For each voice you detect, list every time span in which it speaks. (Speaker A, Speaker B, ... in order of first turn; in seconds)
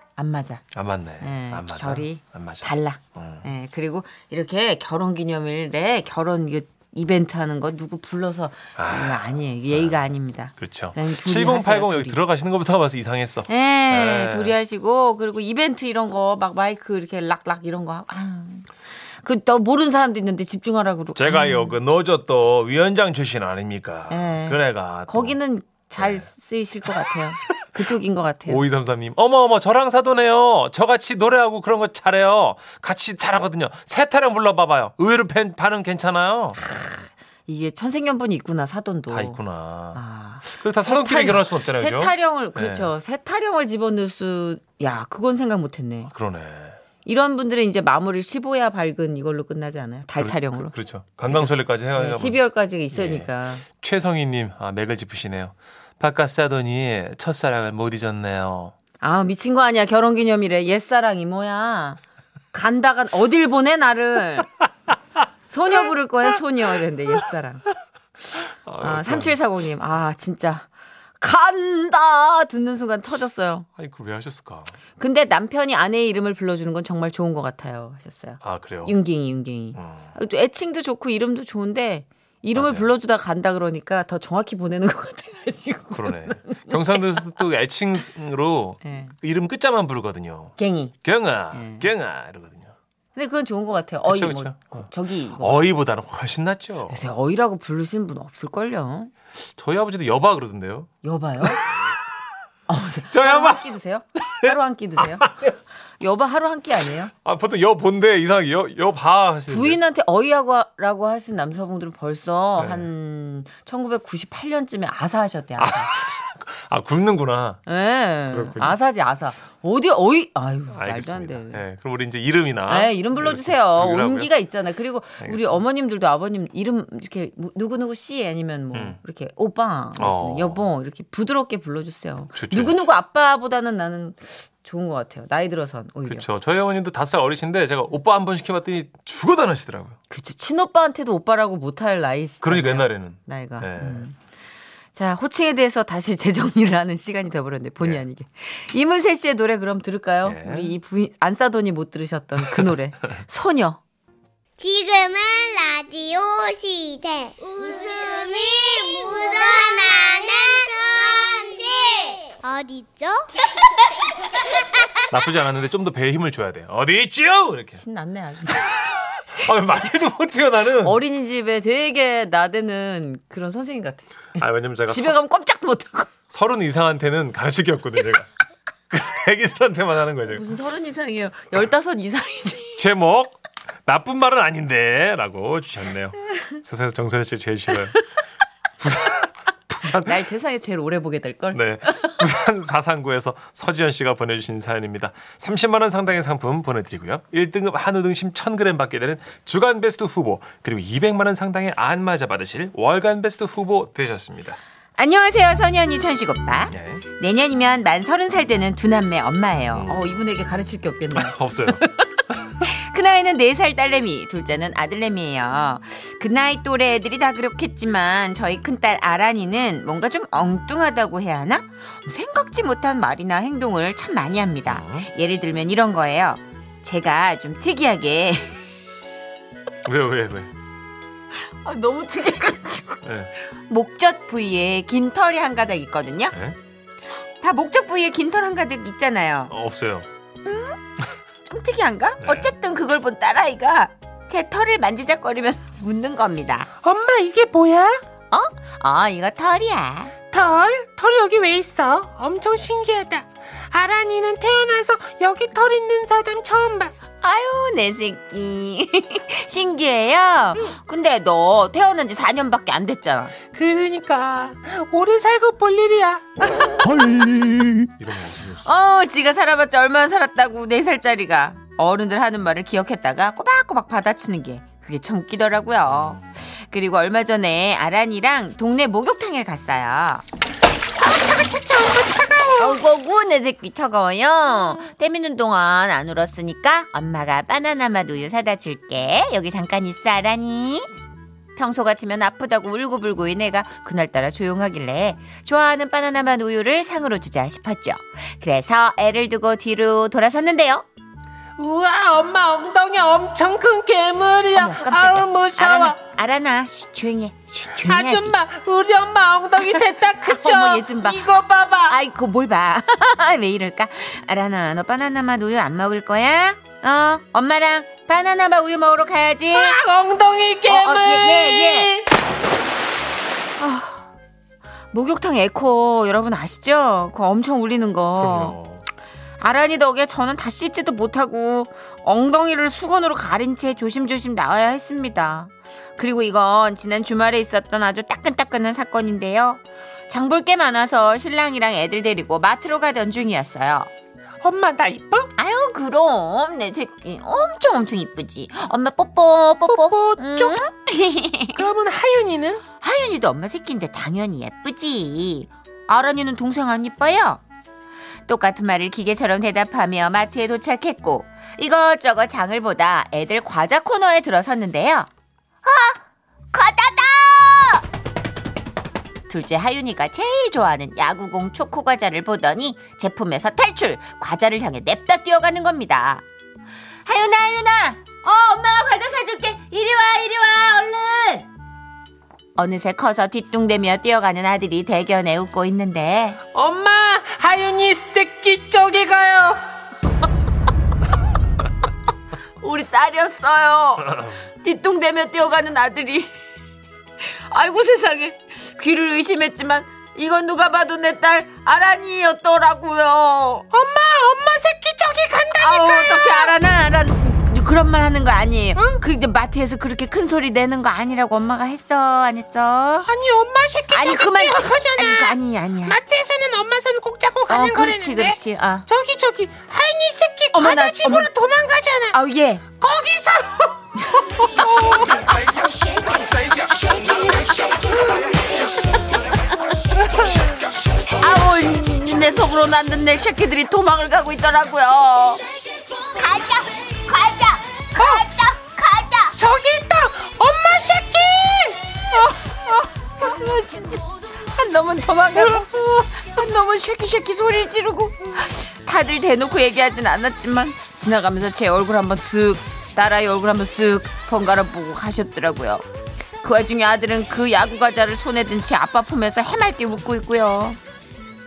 Speaker A: 0.2-0.6, 1.2-12.2, 13.5-21.8, 24.1-28.6, 36.6-39.4, 40.0-46.1, 47.0-50.7, 51.3-53.6, 59.0-62.0, 62.5-64.5, 65.5-67.6, 68.8-70.7, 71.2-73.7, 75.0-87.3, 88.8-89.1, 90.6-91.0, 91.5-91.9, 93.2-95.7, 96.9-99.1, 101.0-101.7, 102.7-105.3, 106.0-107.1, 109.5-115.9, 117.7-121.6, 122.7-136.3, 140.1-144.2, 144.9-153.8, 167.8-168.8, 170.8-174.1, 174.9-176.1, 180.3-182.9, 190.0-192.2, 205.0-228.6, 231.6-236.3, 237.4-239.5, 240.4-240.8, 241.4-246.7, 248.3-250.1, 257.2-263.3, 266.4-267.8, 268.6-280.2, 282.6-290.9, 291.6-300.9, 304.5-308.4, 309.6-311.3, 311.9-319.8, 320.7-321.9, 323.6-324.1, 324.9-328.6, 329.4-343.9, 345.4-351.7, 352.8-357.4, 358.3-365.1, 365.6-366.0, 366.5-367.8, 369.3-376.2, 377.1-381.5, 382.6-386.4, 392.6-396.3, 397.5-403.7, 405.6-413.1, 413.9-416.0, 417.5-418.9, 420.5-421.3, 422.1-422.6, 424.0-425.3, 426.7-428.1, 428.8-429.5, 431.2-435.4, 436.1-439.4, 442.1-455.8, 456.4-460.8
Speaker B: 0.7-3.5, 8.8-10.0, 10.6-14.6, 21.2-25.4, 26.0-26.3, 28.5-36.6, 39.1-42.9, 46.1-46.8, 50.2-52.4, 52.9-58.7, 68.5-69.4, 73.8-74.8, 78.4-79.0, 79.8-80.1, 82.5-82.9, 85.9-92.7, 94.0-97.0, 99.6-100.9, 101.4-101.8, 103.1-104.5, 105.1-105.5, 107.2-109.8, 112.6-112.9, 115.6-117.6, 118.3-118.8, 120.7-124.3, 125.2-125.6, 130.0-130.6, 132.3-132.8, 136.1-140.0, 142.4-144.1, 150.2-150.8, 152.4-152.7, 165.1-167.8, 168.6-171.0, 174.4-175.2, 176.3-178.3, 178.9-180.5, 182.8-188.0, 188.8-190.2, 191.5-204.6, 206.7-207.0, 209.7-210.1, 211.2-211.8, 224.7-225.1, 229.8-230.5, 233.0-233.3, 239.5-240.1, 242.2-242.5, 267.8-268.6, 328.2-328.9
Speaker C: 154.6-163.3
Speaker D: 246.8-248.0, 250.3-256.9, 263.5-266.2, 281.0-282.8, 301.6-306.0, 307.8-312.0, 319.5-322.1, 344.4-345.3, 349.7-350.6, 351.5-352.6, 386.5-389.6, 403.7-406.5, 413.0-422.2, 422.8-423.8, 424.6-425.4, 438.0-438.2, 439.4-441.8